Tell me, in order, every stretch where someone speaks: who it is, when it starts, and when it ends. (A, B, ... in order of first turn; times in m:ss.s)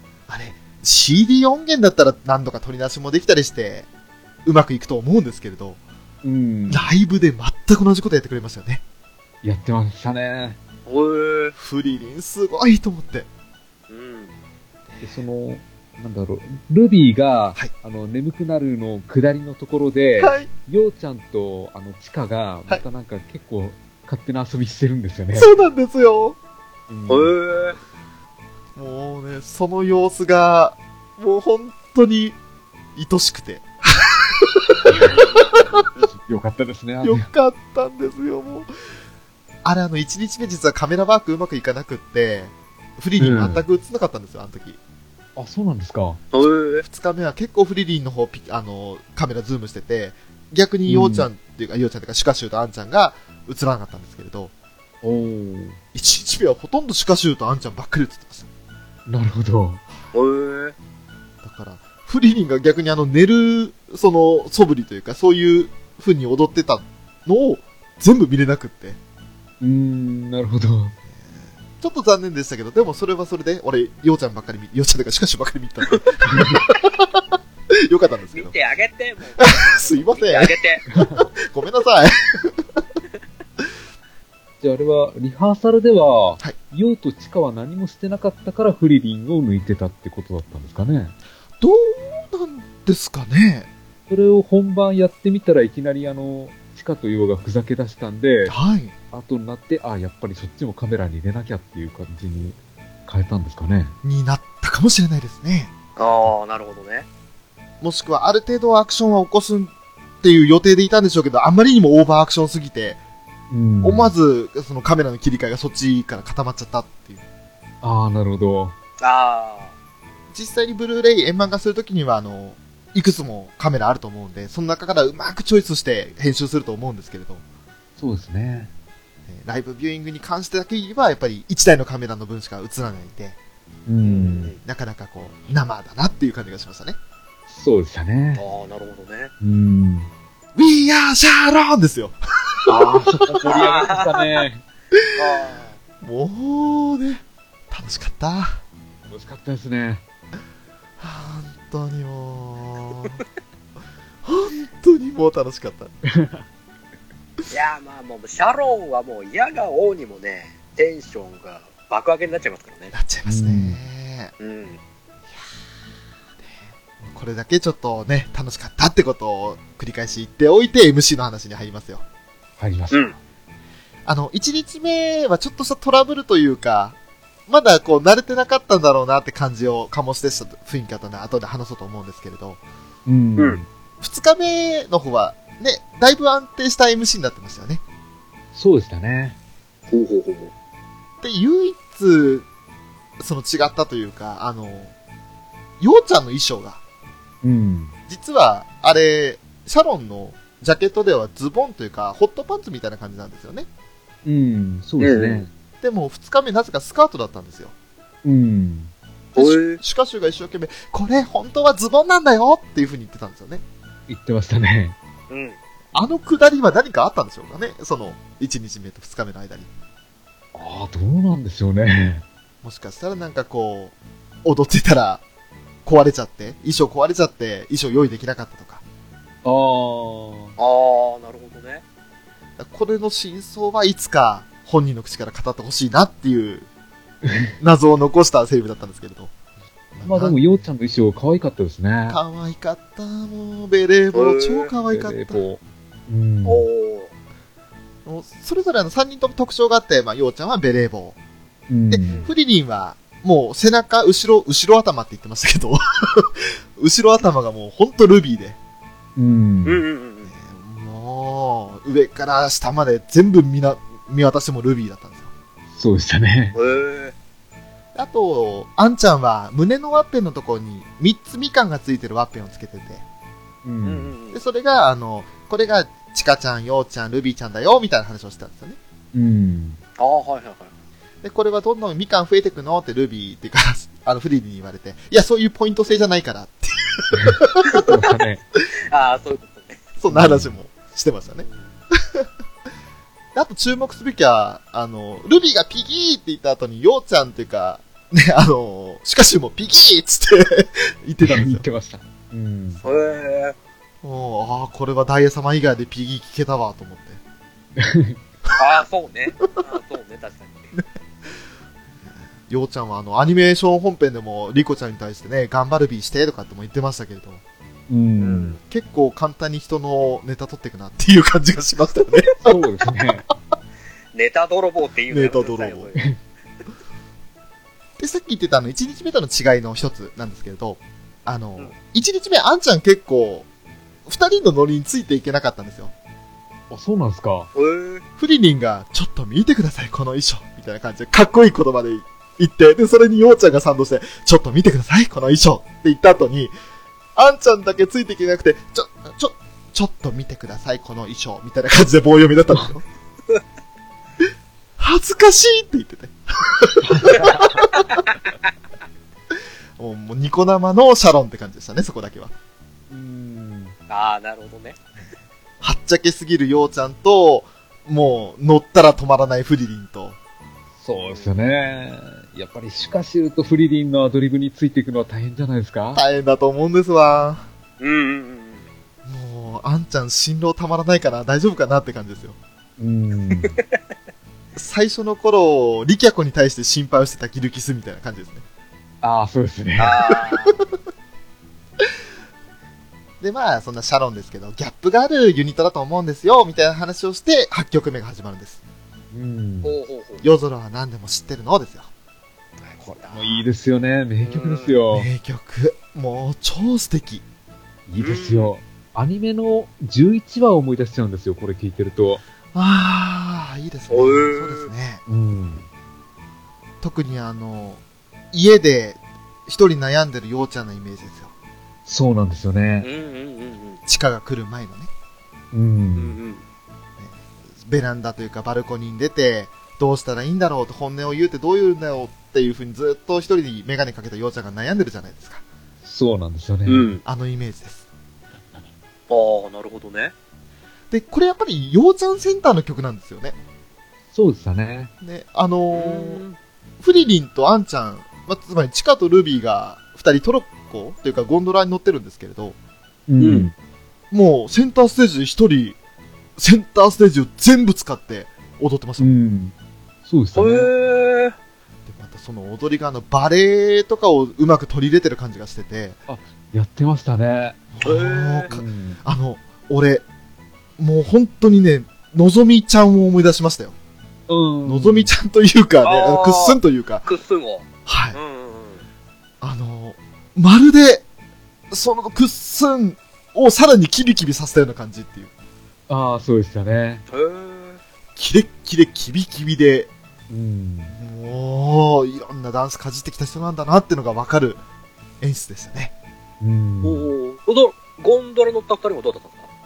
0:00.3-0:03.9 A
0:04.4-0:05.8 A
0:06.2-0:06.9 B
0:06.7-0:08.8 A
0:09.4-0:10.6 B
0:10.8-0:11.5 C
0:11.6-0:13.3 A
0:13.9-0:14.3 C
0:14.9-0:15.2 A
0:15.0-0:25.5 B
0:20.2-0:20.5 A
0:25.3-0:26.4 A
0:26.9-0:27.3 B
0:27.1-0:27.8 C
0:28.8-0:32.4 A
0:32.9-0:35.8 A
0:34.8-0:35.3 B
0:35.1-0:35.6 C
0:36.2-0:37.3 B
0:37.0-0:38.7 A
0:39.6-0:44.8 A
0:43.2-0:43.6 B
0:45.4-0:46.2 B
0:46.3-0:46.8 C
0:46.8-0:54.5 A
0:50.9-0:51.3 B
0:55.0-0:55.8 B
0:55.9-0:58.5 A
0:59.1-0:59.8 B
1:00.1-1:00.7 C
1:01.4-1:09.0 A
1:09.6-1:10.9 B
1:11.1-1:18.5 A
1:16.3-1:16.6 B
1:18.3-1:20.8 C
1:19.4-1:22.8 A
1:20.9-1:21.3 B
1:24.6-1:31.2 B
1:31.6-1:33.7 A
1:34.1-1:38.6 B
1:38.5-1:38.9 A
1:39.1-1:44.0 B
1:44.0-1:46.3 A
1:46.0-1:47.0 C
1:47.8-1:53.0 A
1:53.5-1:54.1 B
1:53.8-1:57.2 A
1:57.8-1:58.8 B
1:59.0-1:59.7 C
2:00.3-2:07.4 A
2:08.0-2:08.7 B
2:09.3-2:13.4 A
2:13.9-2:14.6 B
2:14.0-2:14.6 C
2:14.6-2:17.0 A
2:17.5-2:18.4 B
2:18.3-2:19.3 C
2:19.4-2:20.1 B
2:20.5-2:22.7 A
2:22.7-2:24.6 B
2:23.3-2:23.6 A
2:23.4-2:24.3 C
2:25.1-2:25.8 C
2:26.0-2:28.6 A
2:29.1-2:30.0 B
2:31.0-2:33.2 A
2:34.2-2:35.9 A
2:36.0-2:36.4 B
2:37.5-2:42.9 C
2:42.9-2:44.3 A
2:43.2-2:43.8 B
2:44.4-2:44.8 C
2:46.4-2:52.0 A
2:52.6-2:53.1 B
2:54.0-2:57.0 A
2:57.5-3:02.6 A
3:03.0-3:03.7 B
3:04.0-3:07.8 A
3:08.5-3:09.4 B
3:09.9-3:10.5 C
3:11.2-3:12.5 A
3:13.2-3:14.9 A
3:15.8-3:16.8 A
3:17.4-3:17.9 B
3:18.1-3:23.7 A
3:24.2-3:25.5 B
3:25.0-3:25.4 C
3:25.8-3:27.7 A
3:28.2-3:28.9 B
3:29.3-3:29.8 C
3:29.3-3:33.6 A
3:34.1-3:35.0 B
3:35.3-3:35.6 C
3:35.9-3:39.7 A
3:40.5-3:42.2 B
3:42.6-3:45.2 A
3:45.8-3:48.8 A
3:49.4-3:50.5 B
3:50.6-3:51.8 C
3:52.6-3:56.6 A
3:57.2-3:57.5 B
3:57.6-3:59.3 A
3:59.9-4:00.6 A
4:00.0-4:02.2 B
4:02.1-4:05.4 A
4:04.1-4:04.7 C
4:04.9-4:06.6 B
4:06.4-4:07.1 C
4:08.0-4:11.2 A
4:11.7-4:12.2 B
4:11.9-4:18.6 A
4:12.1-4:12.3 C
4:19.2-4:19.8 B
4:19.6-4:20.3 C
4:20.2-4:25.3 A
4:25.7-4:26.6 B
4:26.5-4:27.1 C
4:27.9-4:33.0 A
4:33.6-4:34.1 B
4:33.8-4:34.4 C
4:34.3-4:38.8 A
4:39.1-4:39.8 B
4:40.0-4:40.7 C
4:41.2-4:47.8 A
4:47.1-4:48.4 B
4:48.9-4:49.8 C
4:50.0-4:51.4 A
4:50.1-4:50.5 B
4:51.4-4:51.8 C
4:52.0-4:52.2 A
4:53.3-5:01.6 A
5:01.2-5:02.8 B
5:02.7-5:03.2 A
5:02.8-5:03.6 C
5:04.0-5:07.2 A
5:07.8-5:08.2 B
5:08.5-5:10.7 C
5:12.4-5:17.4 A
5:17.9-5:18.6 B
5:18.2-5:18.6 C
5:18.7-5:22.6 A
5:22.4-5:23.3 B
5:24.1-5:26.0 C
5:25.1-5:25.9 A
5:28.0-5:33.5 A
5:34.0-5:35.9 A
5:36.7-5:37.5 B
5:37.5-5:38.0 C
5:38.2-5:46.5 A
5:47.2-5:52.8 A
5:54.8-5:58.0 A
5:56.8-5:57.6 B
5:57.7-5:58.1 C
5:59.8-6:02.3 A
6:02.9-6:03.8 B
6:03.9-6:04.8 C
6:05.6-6:10.2 A
6:10.8-6:16.0 B
6:11.0-6:11.4 C
6:15.9-6:17.4 A
6:17.8-6:18.7 C
6:19.0-6:22.4 A
6:22.8-6:23.6 B
6:24.6-6:28.4 A
6:29.0-6:30.0 B
6:29.8-6:30.6 C
6:30.1-6:30.6 A
6:33.2-6:38.6 A
6:39.1-6:39.7 B
6:39.6-6:40.2 C
6:40.2-6:41.9 A
6:42.6-6:43.4 C
6:43.0-6:45.1 B
6:44.2-6:44.8 C
6:44.9-6:47.2 A
6:47.9-6:52.2 B
6:48.0-6:48.5 C
6:52.5-6:55.0 A
6:53.9-6:54.7 C
6:55.1-6:55.7 B
6:56.8-7:01.3 A
7:01.8-7:02.9 B
7:02.8-7:03.8 C
7:03.9-7:04.9 A
7:05.5-7:06.2 B
7:06.0-7:06.4 C
7:07.0-7:15.4 A
7:15.8-7:17.0 B
7:16.7-7:17.0 C
7:17.0-7:17.8 A
7:19.1-7:20.1 C
7:20.9-7:23.4 A
7:24.1-7:24.9 B
7:25.0-7:26.2 A
7:25.7-7:26.4 C
7:26.8-7:32.6 A
7:33.1-7:33.5 B
7:33.2-7:33.5 C
7:34.1-7:35.8 A
7:36.4-7:39.1 A
7:39.0-7:39.5 B
7:40.0-7:40.7 B
7:40.3-7:41.3 C
7:41.9-7:46.0 A
7:46.1-7:47.6 B
7:47.7-7:50.0 A
7:47.8-7:48.5 C
7:48.5-7:49.0 B
7:50.8-7:53.7 A
7:54.3-7:55.1 B
7:54.6-7:57.1 A
7:55.8-7:58.8 C
7:57.8-7:58.2 A
7:59.4-8:01.0 A
8:01.7-8:05.3 A
8:05.9-8:07.0 B
8:07.1-8:07.8 C
8:08.2-8:09.9 A
8:10.3-8:11.0 B
8:10.9-8:14.6 A
8:15.2-8:15.9 A
8:16.4-8:17.1 B
8:16.8-8:19.5 C